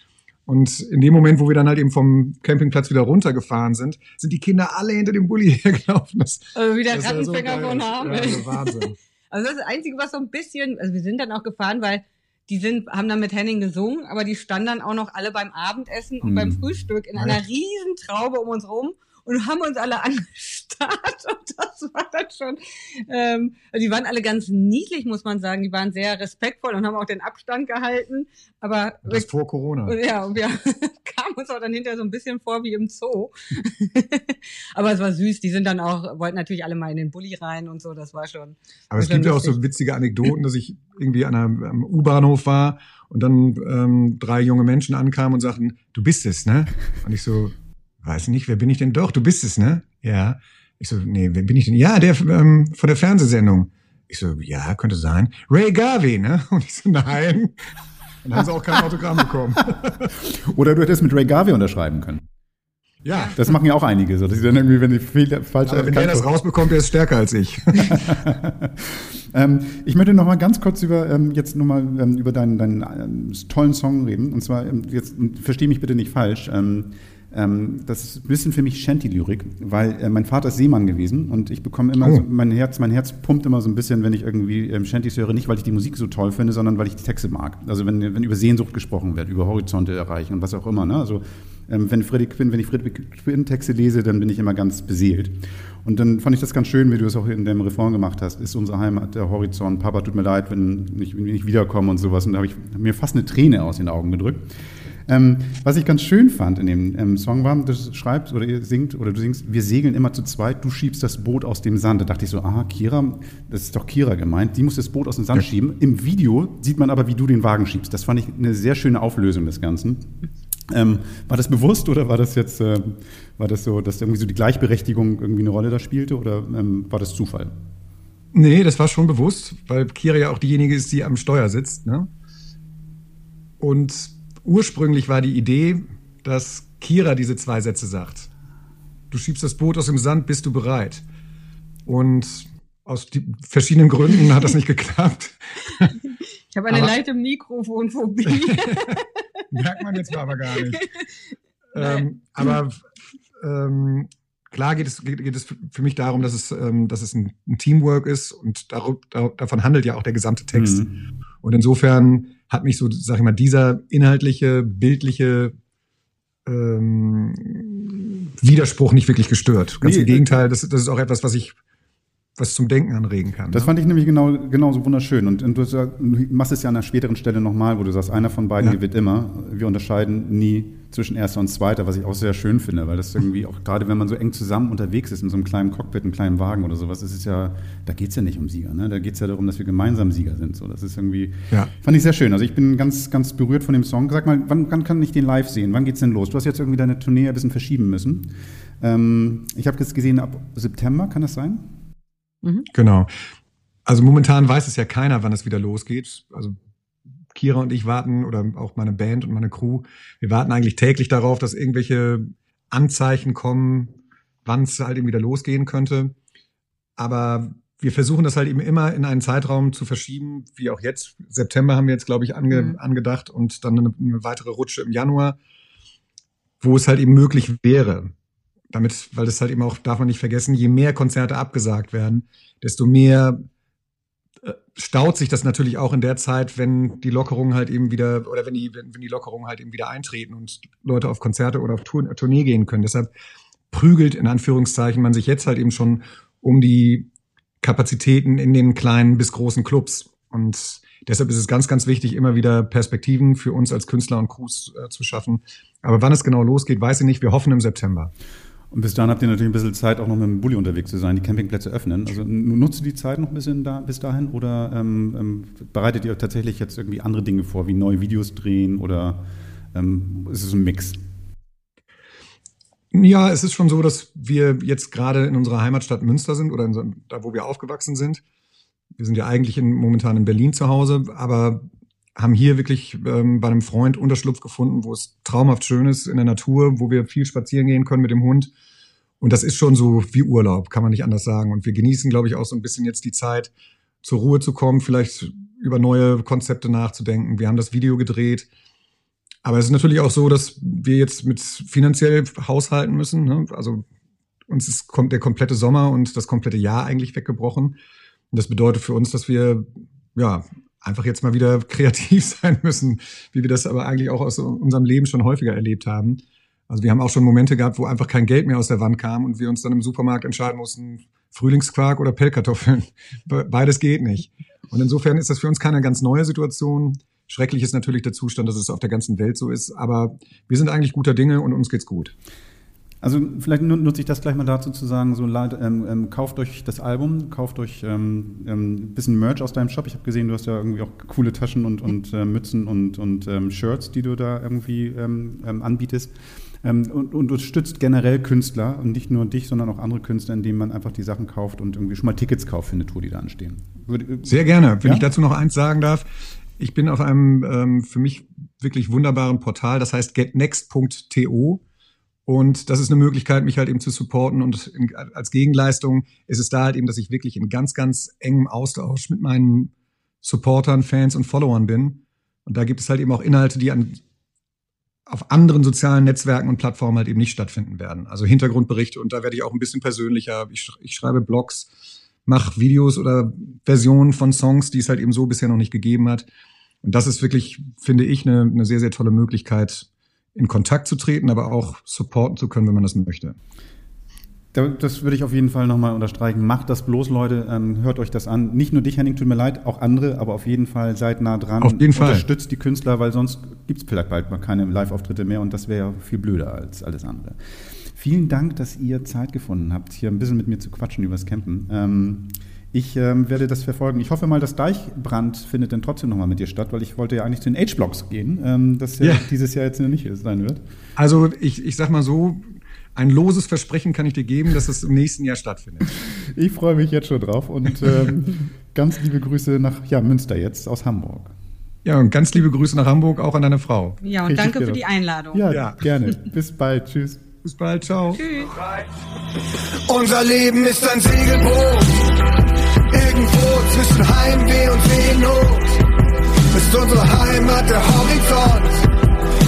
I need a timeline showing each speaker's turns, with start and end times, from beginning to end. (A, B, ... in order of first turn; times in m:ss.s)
0:00.5-0:09.0 A
0:06.6-0:29.3 B
0:16.2-0:16.6 C
0:29.0-0:30.0 A
0:29.9-0:39.6 B
0:38.9-0:57.5 A
0:58.2-0:59.9 A
1:00.2-1:02.2 C
1:03.0-1:03.4 A
1:03.4-1:06.3 C
1:05.6-1:08.0 A
1:07.9-1:44.5 C
1:45.1-2:00.1 C
2:00.7-2:07.5 C
2:08.3-2:12.1 A
2:13.6-2:18.3 A
2:19.1-2:21.0 A
2:21.9-2:25.9 A
2:26.5-2:29.1 B
2:26.7-2:26.9 A
2:28.3-2:28.9 A
2:29.5-2:30.8 A
2:30.5-2:31.1 B
2:31.7-2:32.8 A
2:31.8-2:32.1 B
2:33.4-2:40.8 A
2:40.5-2:41.0 C
2:41.4-2:45.6 A
2:46.4-2:51.6 A
2:49.8-2:50.4 C
2:52.4-2:53.7 A
2:53.5-3:21.7 C
3:22.7-3:23.1 A
3:23.9-3:26.6 A
3:27.3-3:36.2 A
3:37.0-3:45.4 A
3:42.5-3:42.8 B
3:46.6-3:48.1 A
3:48.7-3:53.5 A
3:54.4-4:03.1 A
4:03.7-4:07.1 A
4:07.6-4:18.1 A
4:18.7-4:31.0 C
4:32.9-4:38.2 A
4:39.0-4:48.5 A
4:49.2-4:53.5 A
4:54.0-4:58.5 A
4:59.4-5:03.8 A
5:04.5-5:07.8 A
5:08.3-5:32.1 A
5:33.0-5:55.0 C
5:54.3-5:56.1 A
5:56.6-6:01.6 A
6:02.3-6:14.0 A
6:15.1-6:21.7 A
6:22.3-6:26.3 A
6:26.8-6:33.4 A
6:34.5-6:47.4 C
6:41.6-6:42.3 A
6:47.9-7:00.6 C
6:59.0-6:59.3 A
7:01.0-7:05.9 A
7:06.3-7:11.3 C
7:11.8-7:14.0 A
7:14.0-7:15.5 B
7:14.2-7:17.2 C
7:15.5-7:15.8 A
7:17.4-7:18.2 A
7:18.1-7:18.5 B
7:18.4-7:18.9 D
7:19.9-7:22.1 D
7:22.9-7:25.8 D
7:26.5-7:28.9 D